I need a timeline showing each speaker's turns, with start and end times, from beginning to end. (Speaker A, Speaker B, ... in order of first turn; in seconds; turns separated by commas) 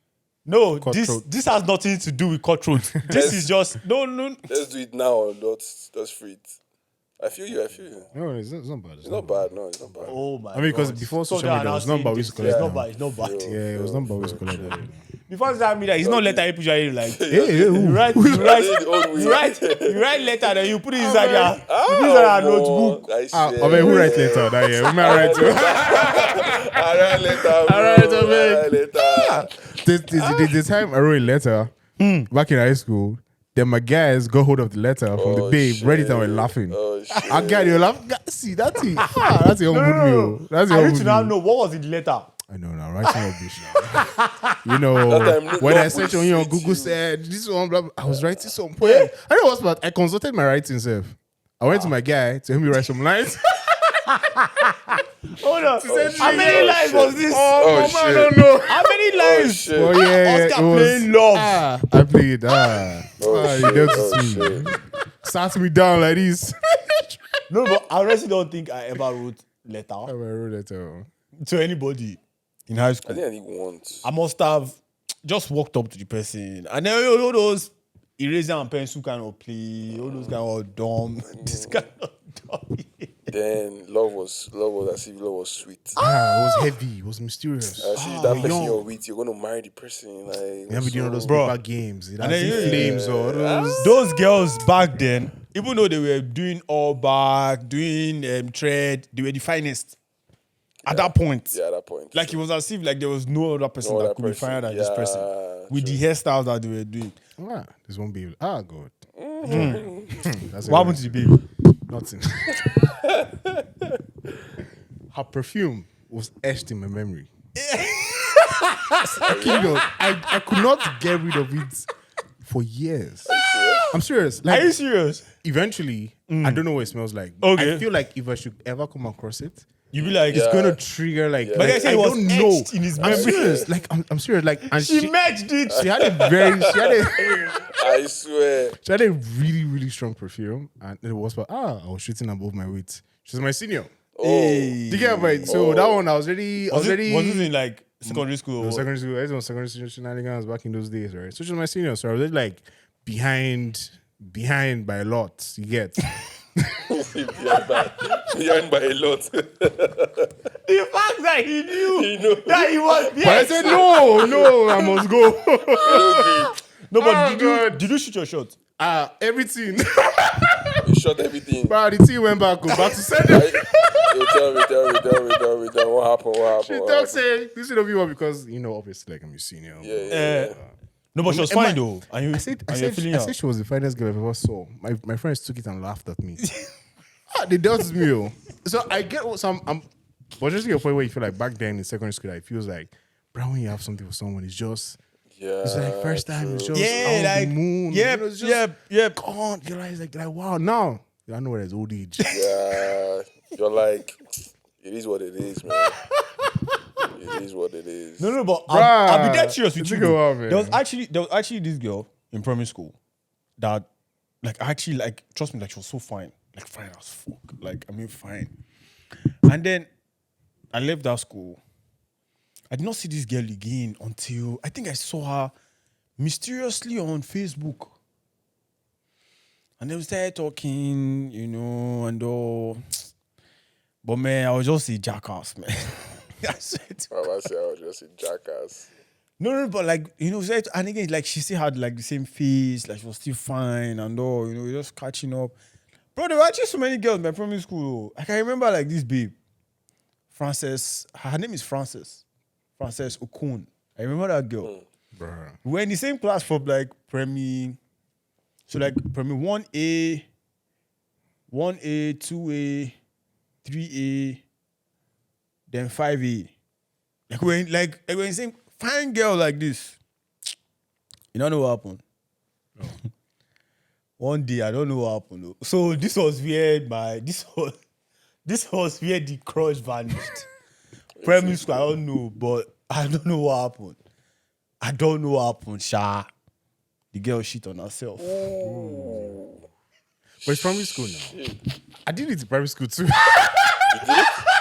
Speaker A: 0.5-4.5, Speaker B: 0.8-1.2, Speaker C: 3.1-3.5, Speaker C: 4.5-6.6, Speaker C: 7.2-8.1, Speaker B: 8.1-9.5, Speaker C: 9.0-10.2, Speaker A: 10.0-13.6, Speaker B: 10.5-12.9, Speaker C: 12.4-14.4, Speaker B: 13.4-15.0, Speaker A: 14.4-23.0, Speaker C: 16.0-16.4, Speaker C: 17.0-17.7, Speaker B: 17.3-18.6, Speaker C: 18.3-20.3, Speaker B: 21.0-21.5, Speaker C: 21.2-30.5, Speaker B: 23.3-26.5, Speaker A: 23.7-24.1, Speaker A: 24.9-25.5, Speaker B: 27.1-28.7, Speaker B: 29.6-31.7, Speaker A: 32.0-32.3, Speaker B: 32.3-36.8, Speaker C: 35.1-37.9, Speaker B: 37.3-41.4, Speaker A: 38.8-42.3, Speaker B: 42.5-44.0, Speaker A: 43.0-44.5, Speaker B: 44.6-53.5, Speaker C: 45.0-47.0, Speaker C: 48.0-48.3, Speaker A: 48.8-49.1, Speaker A: 51.7-51.9, Speaker A: 53.8-57.9, Speaker B: 55.7-59.0, Speaker C: 55.9-58.4, Speaker A: 58.7-61.6, Speaker C: 59.1-60.0, Speaker B: 59.7-67.2, Speaker C: 63.2-64.7, Speaker A: 67.5-70.1, Speaker B: 70.0-71.1, Speaker A: 71.4-73.2, Speaker C: 73.0-74.1, Speaker A: 74.0-83.1, Speaker C: 80.0-80.4, Speaker C: 81.3-81.8, Speaker C: 83.3-86.0, Speaker A: 86.0-86.7, Speaker B: 86.0-88.8, Speaker C: 87.8-91.4, Speaker A: 87.9-88.8, Speaker B: 90.7-94.0, Speaker A: 91.3-91.5, Speaker A: 92.2-93.0, Speaker C: 92.4-94.0, Speaker A: 93.8-100.0, Speaker A: 100.8-101.6, Speaker C: 100.8-102.4, Speaker A: 102.1-107.2, Speaker C: 103.8-106.0, Speaker B: 107.4-111.3, Speaker C: 109.2-110.2, Speaker A: 109.5-109.9, Speaker A: 110.6-111.4, Speaker B: 111.9-112.8, Speaker C: 113.1-113.5, Speaker B: 115.1-117.3, Speaker A: 117.5-119.7, Speaker B: 119.0-121.9, Speaker C: 119.2-119.8, Speaker B: 122.4-123.3, Speaker C: 123.2-124.0, Speaker B: 123.9-124.8, Speaker A: 124.4-125.3, Speaker B: 125.4-129.7, Speaker A: 126.3-126.6, Speaker A: 127.4-127.8, Speaker A: 129.9-130.5, Speaker C: 130.0-130.8, Speaker B: 130.3-137.3, Speaker C: 131.4-132.0, Speaker A: 131.5-133.7, Speaker C: 133.0-133.7, Speaker A: 134.6-135.9, Speaker C: 135.7-138.8, Speaker B: 138.7-143.9, Speaker C: 144.2-144.8, Speaker A: 144.2-145.6, Speaker B: 144.8-147.5, Speaker C: 145.4-146.0, Speaker A: 146.7-148.9, Speaker B: 148.1-156.8, Speaker C: 156.9-160.3, Speaker A: 160.6-164.1, Speaker C: 161.7-164.6, Speaker B: 163.2-166.3, Speaker A: 164.7-165.0, Speaker C: 165.8-166.6, Speaker A: 166.9-168.5, Speaker B: 166.9-167.9, Speaker B: 168.8-170.8, Speaker C: 170.8-171.8, Speaker B: 171.6-173.8, Speaker A: 172.8-173.2, Speaker C: 173.3-177.2, Speaker B: 176.5-180.7, Speaker C: 179.8-180.6, Speaker A: 180.1-180.6, Speaker A: 181.1-183.3, Speaker B: 181.2-186.4, Speaker B: 187.3-189.8, Speaker B: 190.4-195.0, Speaker C: 195.3-197.2, Speaker B: 195.6-202.4, Speaker A: 196.7-199.2, Speaker C: 202.3-204.2, Speaker C: 204.8-205.9, Speaker C: 207.1-208.3, Speaker A: 208.2-213.0, Speaker B: 208.7-210.8, Speaker A: 213.6-213.9, Speaker A: 214.4-218.5, Speaker A: 219.4-219.9, Speaker A: 220.7-221.6, Speaker A: 222.7-225.5, Speaker A: 226.2-227.9, Speaker A: 229.8-232.8, Speaker A: 234.0-237.2, Speaker C: 237.1-238.9, Speaker A: 239.4-245.6, Speaker A: 246.1-249.3, Speaker A: 250.3-252.2, Speaker A: 252.8-254.7, Speaker B: 255.2-255.6, Speaker A: 255.6-257.8, Speaker A: 258.7-260.2, Speaker A: 261.5-262.9, Speaker A: 263.6-264.4, Speaker A: 265.7-266.5, Speaker A: 267.3-270.0, Speaker A: 271.3-272.0, Speaker A: 274.2-277.7, Speaker A: 278.4-280.5, Speaker C: 281.1-281.9, Speaker A: 281.2-284.0, Speaker A: 284.8-286.3, Speaker A: 287.1-288.4, Speaker C: 288.2-289.6, Speaker B: 288.6-289.3, Speaker B: 290.4-291.4, Speaker C: 291.1-291.6, Speaker B: 292.0-293.6, Speaker C: 293.9-294.4